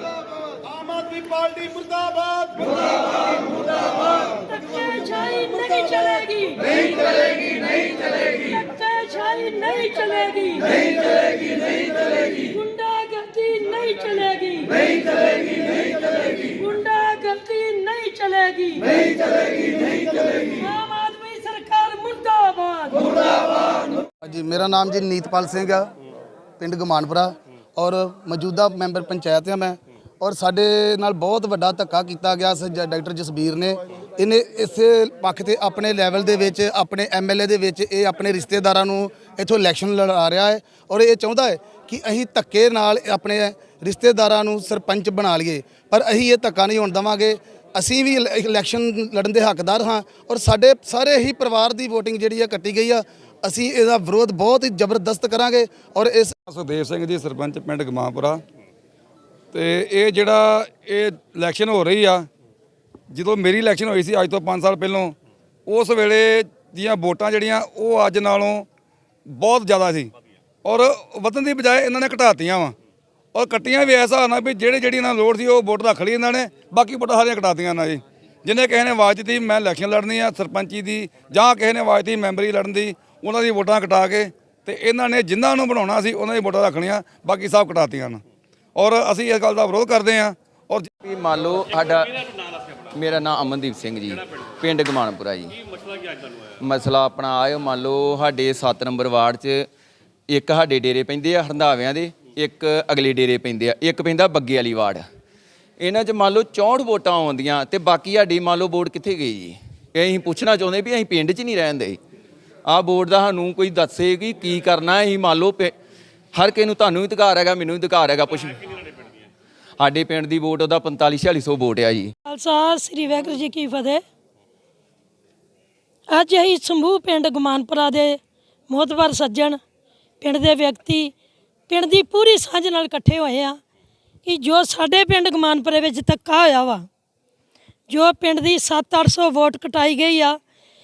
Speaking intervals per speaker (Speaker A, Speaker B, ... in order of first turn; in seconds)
Speaker A: 0.6-2.8
Speaker B: 4.2-23.2, 122.2-124.0, 126.1-129.6, 130.2-131.1, 131.7-133.6, 134.2-136.9, 137.9-140.4
Speaker C: 24.2-25.9, 26.6-56.3
Speaker D: 56.5-58.4, 59.5-62.3, 63.1-65.2, 65.7-68.7, 69.3-70.1, 70.7-72.8, 73.3-88.2, 88.8-90.9
Speaker E: 91.0-92.2, 92.9-95.5, 96.6-99.7, 100.3-105.0, 105.8-112.0, 112.7-115.7, 116.3-118.7, 119.8-122.1